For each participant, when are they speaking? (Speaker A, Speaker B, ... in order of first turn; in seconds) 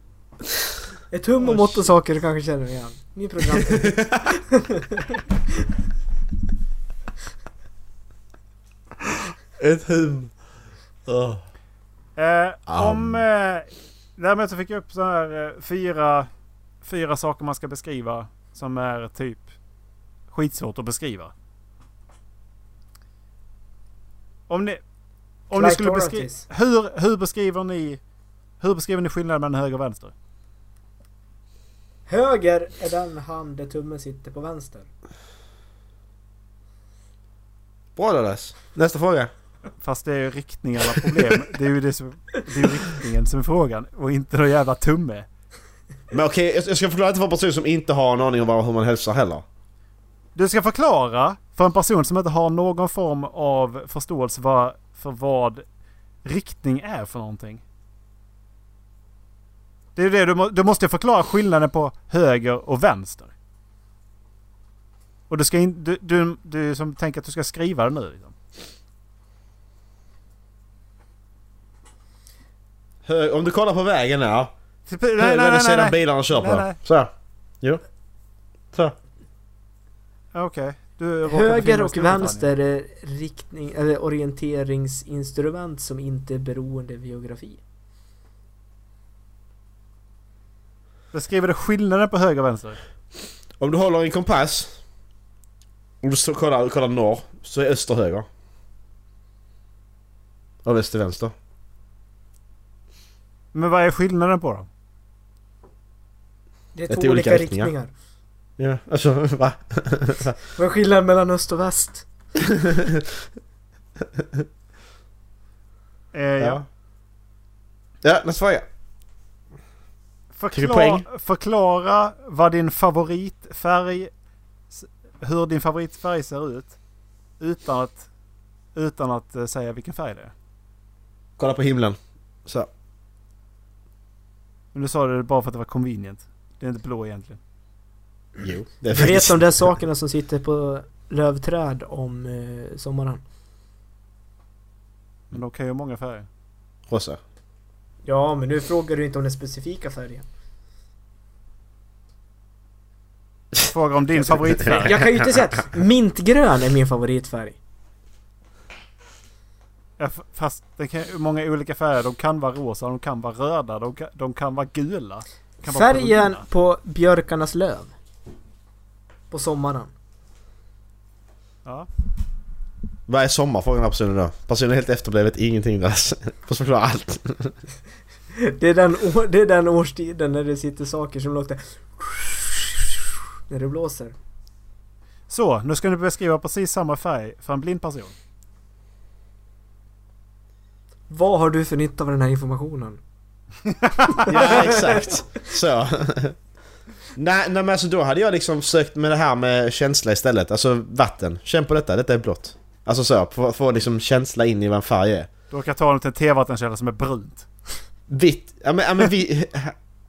Speaker A: 1.1-5.0, 25.5-26.4, 32.1-34.9, 81.2-87.6, 106.7-107.9, 110.5-112.0, 138.9-143.2, 148.0-150.2, 154.8-157.6, 165.7-167.9, 169.3-169.9, 178.4-183.0, 183.5-184.1, 191.1-193.0, 194.2-195.2
Speaker B: 3.5-4.3, 9.6-10.3, 11.1-11.4, 12.7-13.2, 38.0-39.3, 46.1-49.4, 73.0-74.5, 75.2-77.8, 93.6-94.8, 96.0-98.3, 100.6-101.3, 106.9-107.7, 108.6-110.4, 112.4-113.1, 114.0-114.5, 116.4-116.6, 118.0-118.7, 120.5-121.0, 131.4-132.7, 138.4-139.7, 146.9-147.2, 154.3-155.2, 173.1-177.5, 194.2-196.4, 197.2-205.3, 208.1-209.7
Speaker C: 12.2-16.3, 16.8-19.4, 20.3-21.3, 24.5-24.8, 25.5-28.0, 28.6-30.1, 39.8-45.2, 50.4-55.6, 56.2-57.6, 60.0-63.3, 65.3-68.3, 74.9-76.8, 80.3-82.5, 91.1-92.8, 103.5-104.7, 116.1-116.6, 120.3-124.1, 124.7-126.8, 127.4-128.1, 128.7-130.3, 134.7-137.4, 145.3-146.3, 153.7-155.0, 160.0-166.4, 185.3-188.1, 193.8-194.3, 205.5-207.5